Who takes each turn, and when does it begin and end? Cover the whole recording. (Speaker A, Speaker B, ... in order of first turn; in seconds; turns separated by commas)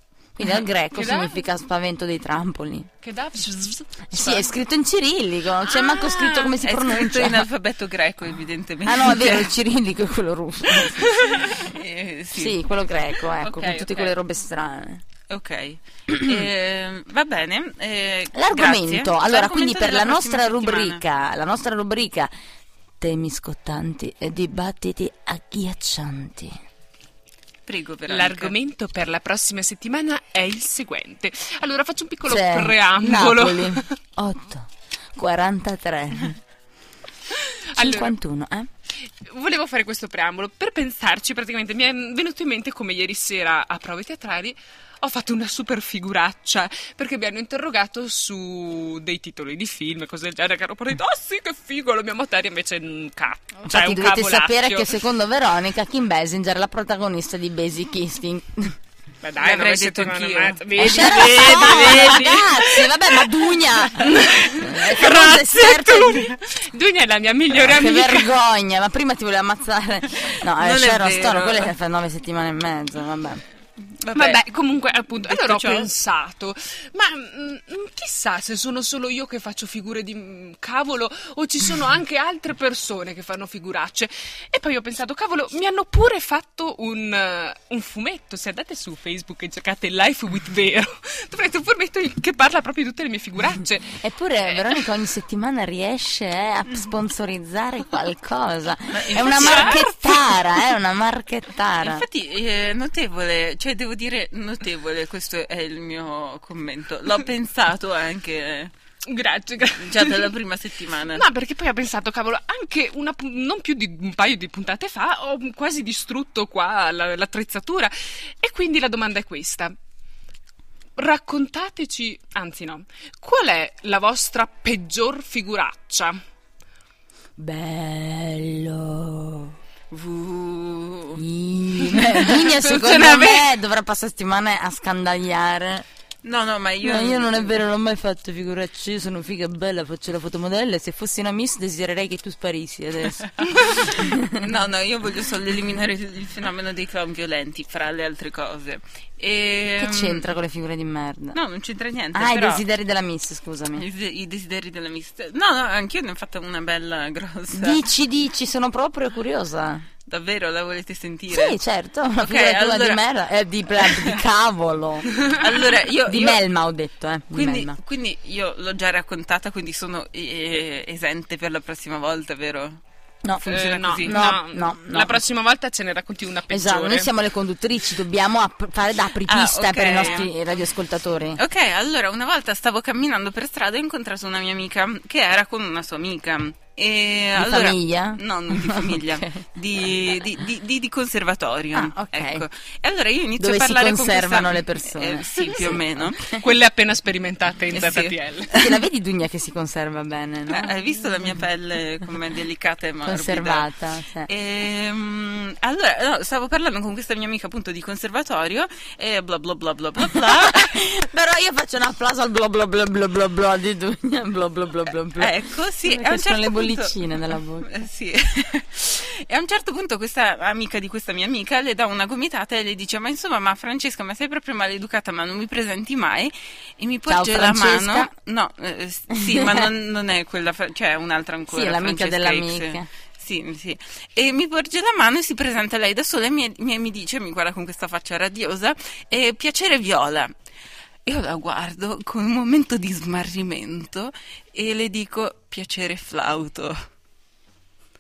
Speaker A: 0.3-2.9, Speaker B: 0.9-1.4, Speaker B: 3.0-4.5, Speaker A: 4.1-7.5, Speaker B: 5.7-6.5, Speaker C: 6.5-9.5, Speaker A: 8.8-11.2, Speaker B: 11.1-11.5, Speaker C: 11.3-12.6, Speaker A: 12.3-15.0, Speaker B: 13.4-14.1, Speaker C: 15.3-21.0, Speaker A: 18.3-22.3, Speaker A: 23.0-26.6, Speaker C: 27.6-28.5, Speaker B: 28.1-33.9, Speaker A: 32.3-36.4, Speaker B: 37.7-38.1, Speaker A: 37.7-38.7, Speaker B: 39.2-54.9, Speaker A: 53.6-58.8, Speaker B: 59.2-63.2, Speaker C: 59.4-62.4, Speaker A: 60.8-66.3, Speaker B: 64.0-68.3, Speaker A: 67.6-73.4, Speaker C: 70.5-71.7, Speaker C: 73.9-74.4, Speaker B: 74.1-94.0, Speaker C: 75.2-75.9, Speaker A: 94.0-102.0, Speaker C: 98.9-99.9, Speaker B: 99.1-100.3, Speaker C: 101.8-108.7, Speaker B: 109.0-110.3, Speaker C: 109.7-111.3, Speaker B: 111.1-119.7, Speaker B: 121.0-126.2, Speaker A: 127.4-129.6, Speaker C: 129.9-131.2, Speaker A: 131.2-135.8, Speaker C: 131.9-132.3, Speaker B: 132.5-133.5, Speaker C: 136.2-137.6, Speaker A: 136.8-144.4, Speaker C: 143.6-150.2, Speaker A: 149.8-151.4, Speaker C: 151.3-152.6, Speaker A: 152.1-153.8, Speaker C: 153.7-157.8, Speaker A: 157.5-159.9, Speaker C: 160.1-161.6, Speaker A: 161.3-165.3, Speaker C: 162.2-163.0, Speaker C: 163.8-164.2, Speaker C: 165.3-166.4, Speaker A: 166.1-167.8, Speaker C: 167.3-172.8, Speaker C: 173.4-174.3, Speaker B: 173.4-177.1, Speaker A: 174.0-175.2, Speaker A: 176.5-181.4, Speaker C: 179.2-180.3, Speaker B: 180.0-180.3, Speaker C: 181.3-196.2, Speaker A: 187.3-189.4, Speaker A: 191.7-192.4, Speaker A: 193.4-196.4, Speaker B: 196.4-198.5, Speaker C: 197.7-198.8, Speaker A: 198.5-200.7, Speaker C: 200.5-203.7, Speaker A: 203.0-204.3, Speaker C: 204.3-210.8, Speaker A: 210.1-217.7, Speaker C: 215.2-240.3, Speaker A: 227.1-228.1, Speaker A: 229.1-229.7, Speaker A: 231.5-232.9, Speaker C: 241.0-246.8